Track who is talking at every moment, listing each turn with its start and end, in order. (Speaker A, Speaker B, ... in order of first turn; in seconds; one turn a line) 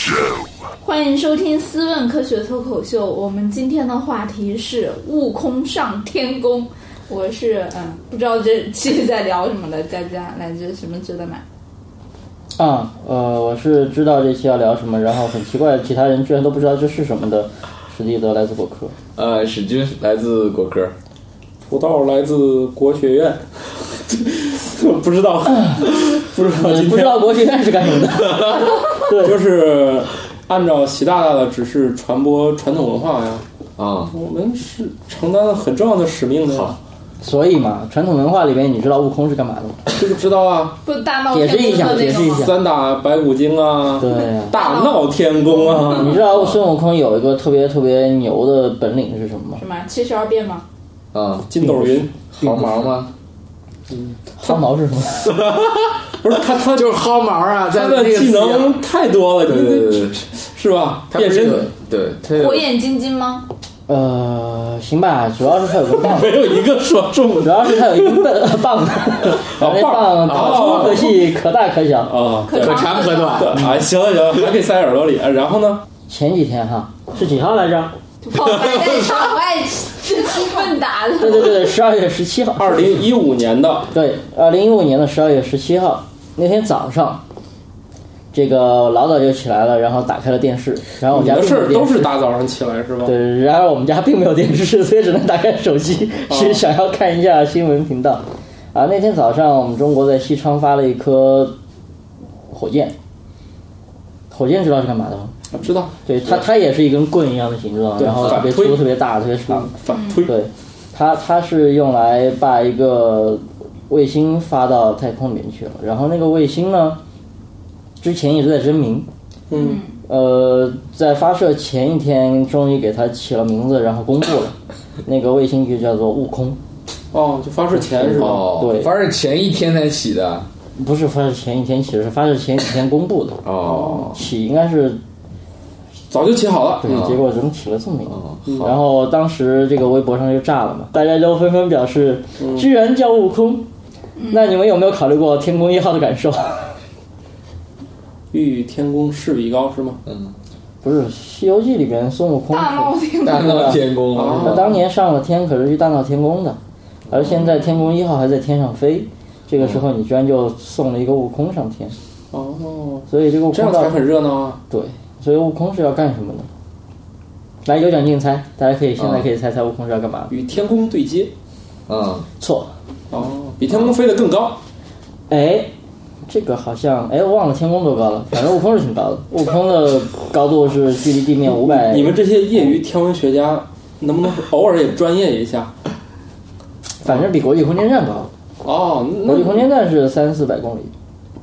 Speaker A: 0.8-11.4
Speaker B: 12.6-18.9
Speaker C: 19.1-20.9
Speaker D: 21.7-23.4
Speaker D: 24.1-27.3
Speaker B: 25.5-29.4
Speaker D: 29.0-33.4
Speaker C: 33.8-34.1
Speaker D: 34.1-36.8
Speaker B: 37.2-39.8
Speaker D: 40.0-40.8
Speaker A: 40.8-42.5
Speaker B: 41.3-42.5
Speaker D: 41.6-46.2
Speaker B: 44.0-44.6
Speaker A: 44.5-46.1
Speaker B: 45.9-49.6
Speaker C: 46.2-46.6
Speaker A: 49.6-50.6
Speaker C: 51.1-51.5
Speaker D: 51.5-52.1
Speaker B: 51.6-52.9
Speaker C: 52.3-53.1
Speaker D: 53.9-54.2
Speaker B: 54.4-55.3
Speaker C: 55.2-56.0
Speaker D: 56.2-57.0
Speaker C: 56.7-58.8
Speaker D: 57.7-61.7
Speaker C: 59.4-60.2
Speaker C: 61.1-62.7
Speaker A: 62.3-63.5
Speaker B: 63.9-66.3
Speaker D: 65.9-68.3
Speaker B: 67.4-72.2
Speaker D: 69.4-71.2
Speaker C: 70.2-71.1
Speaker D: 72.1-75.8
Speaker A: 72.5-73.5
Speaker C: 72.5-73.7
Speaker B: 76.1-77.9
Speaker A: 78.2-81.7
Speaker C: 78.4-79.3
Speaker B: 81.2-83.0
Speaker D: 82.6-83.9
Speaker B: 83.9-87.2
Speaker B: 88.3-92.1
Speaker D: 91.1-93.1
Speaker B: 93.0-101.5
Speaker D: 96.3-96.6
Speaker B: 102.5-102.9
Speaker B: 104.3-105.3
Speaker D: 105.5-106.4
Speaker B: 106.0-109.7
Speaker D: 108.0-108.9
Speaker C: 108.2-108.4
Speaker D: 109.5-110.3
Speaker A: 109.9-110.3
Speaker B: 110.2-117.0
Speaker B: 118.0-119.1
Speaker D: 119.5-119.8
Speaker A: 119.5-120.0
Speaker B: 120.0-126.6
Speaker D: 127.1-128.4
Speaker B: 127.7-128.9
Speaker C: 128.2-130.5
Speaker B: 130.8-133.4
Speaker C: 133.4-134.1
Speaker D: 133.6-134.2
Speaker B: 134.0-135.0
Speaker D: 136.1-137.1
Speaker B: 136.8-143.7
Speaker C: 136.9-137.2
Speaker C: 138.1-138.6
Speaker D: 138.5-138.7
Speaker D: 142.4-142.7
Speaker A: 144.2-144.5
Speaker B: 144.3-146.7
Speaker D: 148.3-150.0
Speaker C: 150.1-150.3
Speaker B: 150.8-153.8
Speaker A: 152.5-153.8
Speaker C: 153.2-154.8
Speaker D: 154.1-154.8
Speaker B: 154.3-156.6
Speaker C: 157.1-157.3
Speaker B: 157.1-161.9
Speaker D: 162.3-164.6
Speaker B: 163.1-164.0
Speaker B: 164.7-166.5
Speaker B: 167.6-170.3
Speaker C: 169.0-169.2
Speaker D: 170.3-171.3
Speaker C: 171.9-172.3
Speaker B: 172.4-172.7
Speaker D: 173.1-174.6
Speaker B: 175.3-175.7
Speaker B: 176.3-182.1
Speaker D: 181.6-185.7
Speaker B: 187.0-188.3
Speaker D: 188.6-189.7
Speaker B: 189.2-190.9